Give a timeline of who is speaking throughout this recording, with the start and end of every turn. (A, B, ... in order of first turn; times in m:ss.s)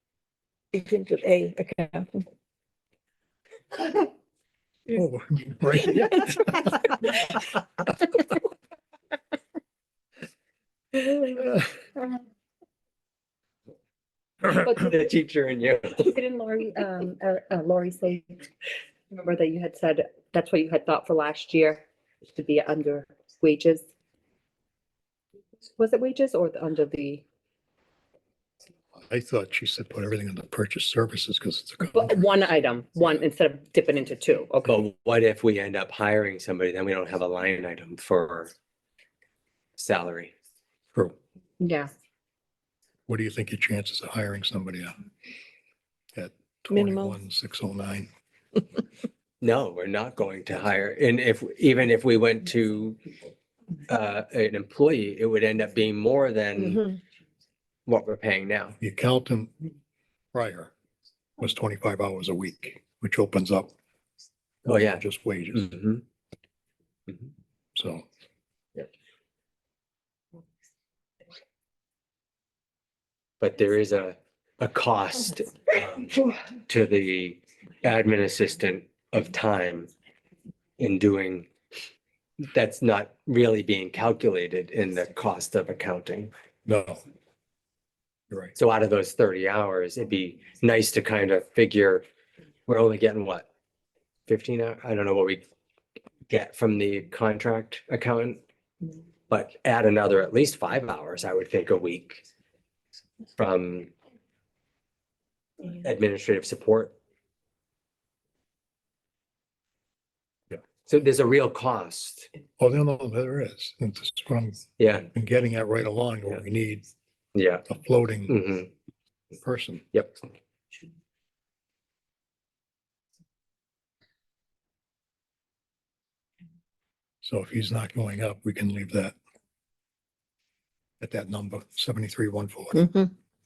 0:00.7-0:02.2 A
0:04.9-0:06.6 B
0:14.4-0:16.1 C
0:14.5-0:15.0 D
0:16.0-0:18.4 D
0:19.1-0:23.9 D
0:25.7-0:27.2 D
0:29.1-0:32.2 B
0:31.9-0:34.8 D
0:34.6-0:38.5 C
0:39.8-0:40.3 C
0:41.6-0:41.9 D
0:43.1-0:44.9 B
0:46.2-0:48.1 B
0:46.7-0:47.1 A
0:49.4-0:53.0 C
0:53.9-0:56.8 C
0:56.6-0:56.9 A
0:57.9-0:58.8 C
0:58.8-0:59.5 B
1:00.3-1:00.7 B
1:01.4-1:03.7 B
1:04.6-1:05.7 B
1:04.7-1:06.0 C
1:07.8-1:08.0 B
1:13.4-1:19.9 C
1:20.8-1:21.5 C
1:22.5-1:26.3 C
1:26.7-1:27.0 B
1:28.6-1:32.0 C
1:32.7-1:33.5 C
1:34.3-1:35.4 C
1:36.3-1:38.4 C
1:39.3-1:42.2 C
1:43.4-1:43.9 C
1:45.6-1:47.0 C
1:50.8-1:52.3 C
1:52.6-1:56.9 B
1:54.8-1:55.1 C
1:57.4-1:57.7 C
1:57.7-1:58.4 B
1:58.3-1:58.7 C
1:59.4-1:59.9 B
2:07.2-2:09.2 B
2:11.0-2:12.9 B
2:12.8-2:13.1 A